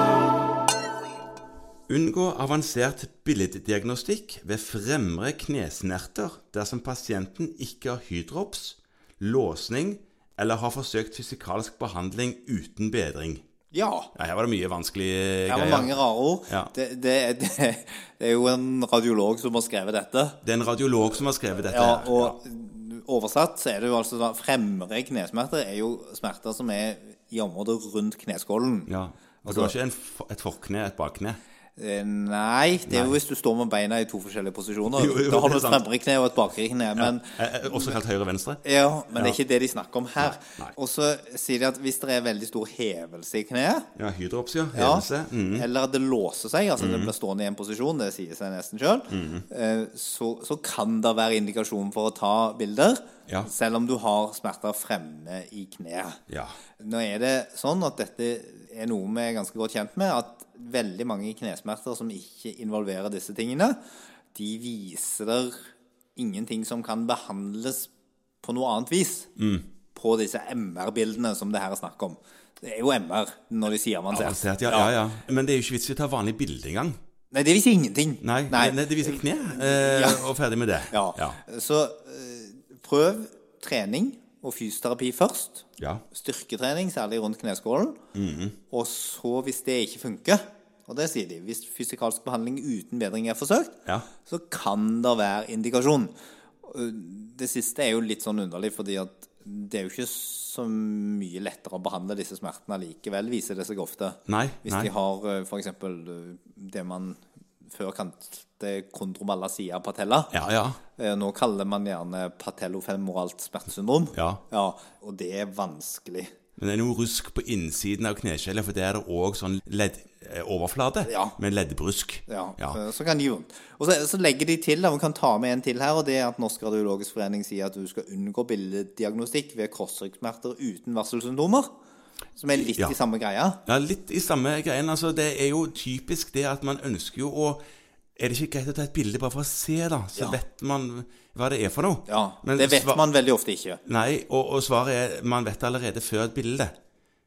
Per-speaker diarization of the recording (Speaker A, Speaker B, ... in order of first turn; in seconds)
Speaker A: 1.9-13.4, 14.1-15.9, 20.4-22.4, 28.9-31.4, 32.9-33.2, 34.9-35.8, 36.9-38.6, 39.1-39.4, 40.2-40.7, 44.0-45.7, 46.8-47.1, 49.1-49.5, 56.3-56.6, 69.3-69.7, 74.1-77.0, 78.2-81.4, 85.8-86.0, 88.1-88.6, 104.3-104.9, 110.3-110.8, 114.1-114.4, 116.6-122.8, 132.5-132.9, 133.6-137.6, 138.2-143.0, 143.8-146.7
Speaker B: 13.7-14.1, 15.5-20.4, 21.7-28.9, 29.4-29.7, 31.8-38.0, 38.6-43.9, 44.7-56.2, 56.8-63.8, 64.3-67.9, 68.4-69.3, 69.9-74.9, 77.3-80.3, 80.9-88.0, 88.7-96.1, 96.6-110.3, 111.0-116.3, 121.0-121.3, 122.3-131.7, 132.3-133.6, 142.1-143.8